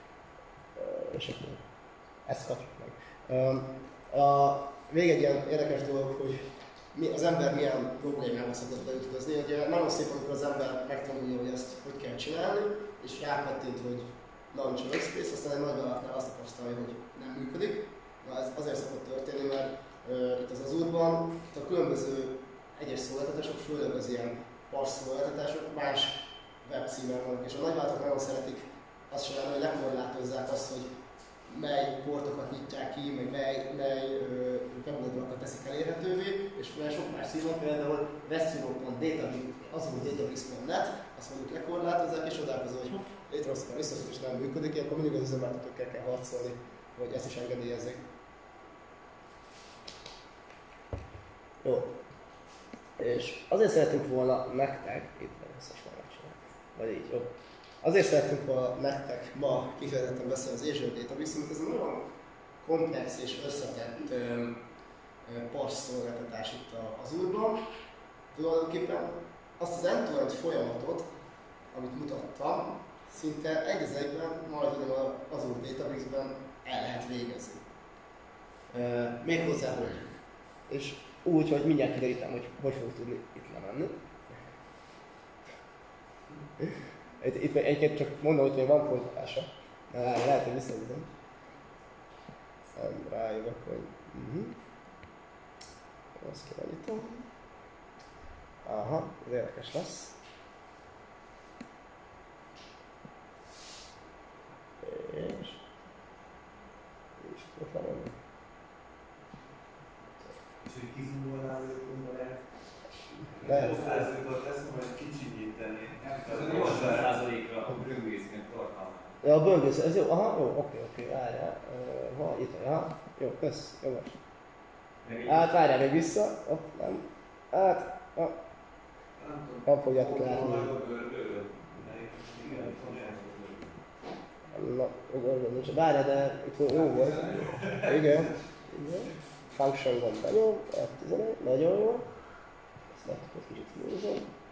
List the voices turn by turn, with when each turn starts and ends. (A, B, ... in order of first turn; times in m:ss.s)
0:00.8-0:01.6 A
0:02.3-0:30.9 A
0:31.5-0:48.0 A
0:51.6-0:52.0 A
0:53.0-1:02.1 A
1:02.6-1:04.6 A
1:05.3-1:07.7 A
1:08.3-1:11.1 A
1:11.7-1:17.6 A
1:18.7-1:20.2 A
1:20.7-1:23.9 A
1:26.6-1:31.1 A
1:32.7-1:34.6 A
1:36.2-1:37.3 A
1:38.6-1:40.2 A
1:44.8-1:45.6 A
1:47.2-1:48.2 A
1:50.6-1:52.4 B
1:53.2-1:53.8 A
1:53.3-1:57.2 B
1:56.2-1:59.2 C
1:59.2-2:04.2 A
2:05.0-2:05.5 C
2:05.3-2:08.4 A
2:09.2-2:11.2 B
2:09.6-2:10.7 A
2:10.6-2:13.7 C
2:11.8-2:13.3 B
2:14.5-2:22.1 A
2:17.2-2:17.9 B
2:22.9-2:24.3 A